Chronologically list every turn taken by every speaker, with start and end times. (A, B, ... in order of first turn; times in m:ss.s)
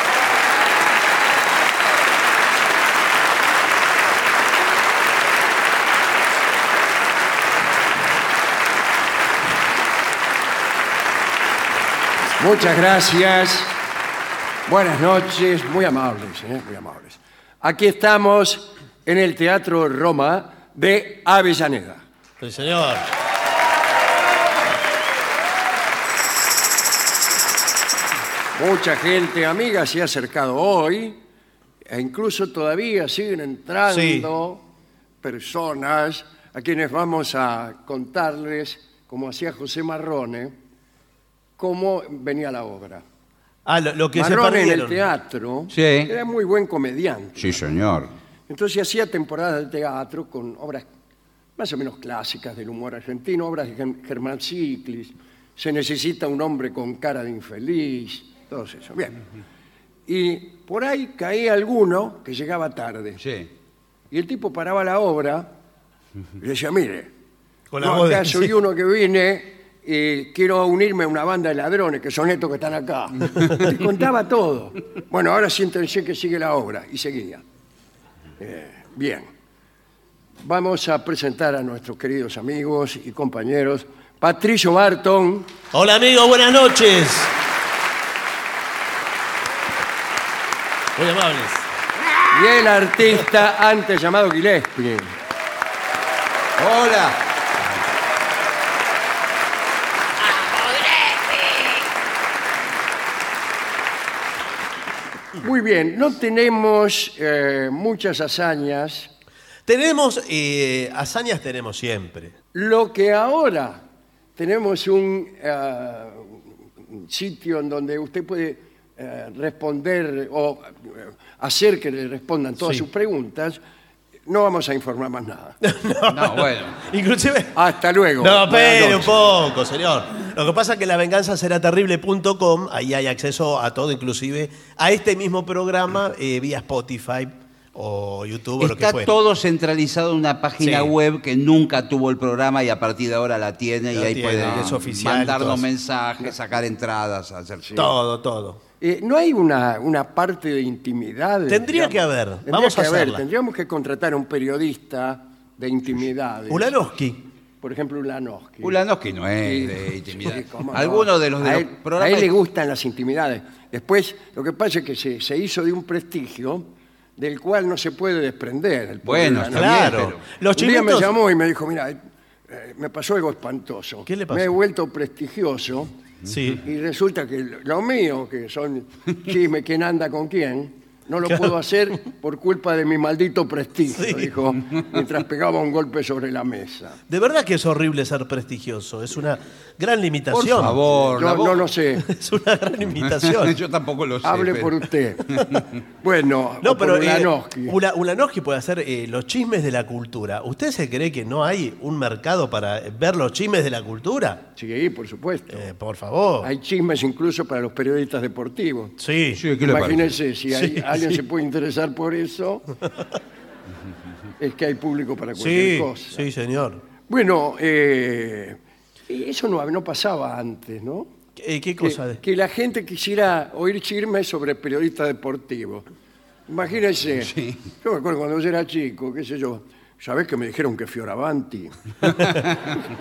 0:12.4-0:13.8 A
0:14.6-0:22.0 A
0:22.4-0:23.1 B
0:28.5-0:31.2 A
0:31.9-0:34.6 A
0:33.9-0:34.3 B
0:35.2-0:40.5 A
0:41.6-0:43.0 A
0:43.6-0:45.0 B
0:44.1-0:47.6 A
0:45.7-0:46.1 C
0:47.4-0:48.1 C
0:48.5-0:50.8 A
0:51.6-0:59.2 A
1:00.1-1:03.2 A
1:03.2-1:03.5 C
1:04.1-1:05.5 A
1:06.4-1:07.1 A
1:07.7-1:08.5 B
1:07.8-1:17.4 A
1:18.4-1:19.3 A
1:20.4-1:25.5 A
1:25.7-1:27.3 B
1:31.0-1:31.6 B
1:32.3-1:35.2 A
1:36.6-1:37.2 C
1:45.4-1:49.1 A
1:49.6-1:52.3 B
1:52.5-1:53.8 A
1:54.4-2:03.6 A
2:04.2-2:05.6 A
2:05.6-2:07.6 B
2:06.1-2:06.8 C
2:07.5-2:09.2 A
2:08.2-2:19.1 B
2:18.6-2:27.9 C
2:20.6-2:20.9 B
2:23.9-2:25.6 B
2:27.6-2:27.9 A
2:27.8-2:28.6 B
2:28.8-2:36.7 A
2:31.5-2:33.2 B
2:36.5-2:37.2 B
2:37.6-2:38.8 A
2:38.6-2:42.3 C
2:39.4-2:55.9 A
2:49.0-2:50.2 C
2:49.5-2:51.1 B
2:54.0-2:54.6 B
2:56.2-2:56.6 B
2:56.6-3:07.0 A
3:01.2-3:01.5 B
3:03.9-3:04.3 B
3:07.1-3:10.8 B
3:10.3-3:11.7 C
3:11.1-3:12.1 A
3:12.0-3:13.6 B
3:13.0-3:15.7 C
3:14.2-3:17.8 A
3:16.6-3:24.5 B
3:24.6-3:25.7 A
3:25.5-3:26.5 B
3:26.4-3:29.0 A
3:29.0-3:29.4 B
3:29.3-3:30.2 C
3:29.6-3:32.7 A
3:30.5-3:31.2 B
3:34.4-3:36.2 A
3:35.4-3:36.8 B
3:37.1-3:41.1 A
3:41.4-3:42.2 B
3:41.8-3:45.8 A
3:46.5-3:52.4 A
3:47.2-3:47.6 C